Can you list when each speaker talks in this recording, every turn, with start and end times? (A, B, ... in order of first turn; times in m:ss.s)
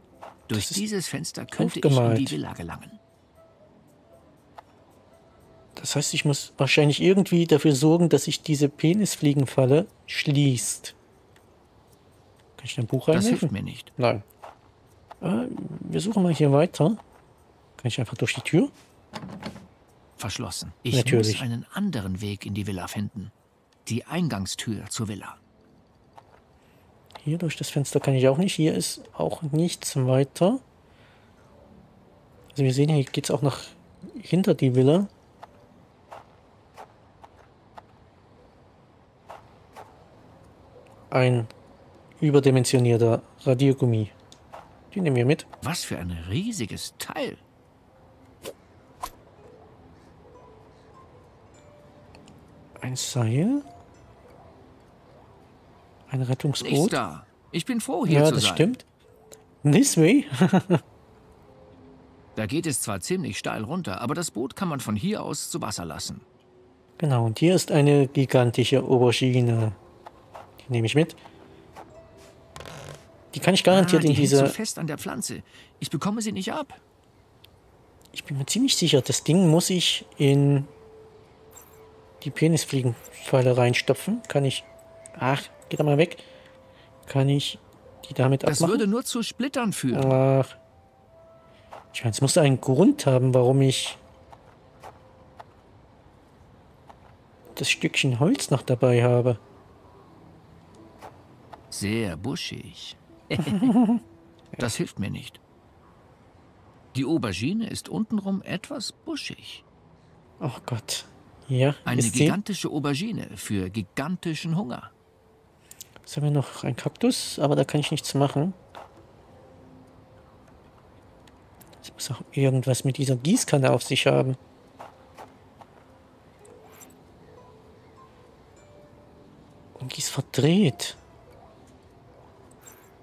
0:00.5-0:03.0 A
0:00.5-0:00.8 B
0:01.5-0:02.4 B
0:05.8-0:10.9 B
0:12.6-0:14.2 B
0:13.1-0:13.9 A
0:15.2-0:17.0 B
0:17.8-0:18.7 B
0:20.2-0:23.3 A
0:20.9-0:21.4 B
0:23.8-0:25.4 A
0:27.2-0:30.6 B
0:32.5-0:35.1 B
0:41.1-0:41.5 B
0:42.2-0:44.1 B
0:44.9-0:45.5 B
0:45.6-0:47.4 A
0:52.8-0:53.6 B
0:56.1-0:57.0 B
0:56.6-0:58.7 A
0:58.0-0:58.8 B
0:59.6-1:00.8 B
1:02.4-1:06.2 A
1:07.0-1:09.8 B
1:10.6-1:11.2 B
1:13.3-1:14.5 B
1:13.7-1:16.8 A
1:18.1-1:20.7 B
1:22.2-1:26.2 B
1:27.1-1:28.8 B
1:28.4-1:30.2 A
1:29.9-1:30.6 B
1:31.9-1:34.0 B
1:37.6-1:39.4 B
1:41.7-1:43.7 A
1:43.5-1:44.0 B
1:44.6-1:45.4 A
1:46.9-1:49.6 A
1:50.4-1:52.4 B
1:51.8-1:54.9 A
1:56.0-1:58.6 B
2:01.8-2:04.4 B
2:09.8-2:11.0 B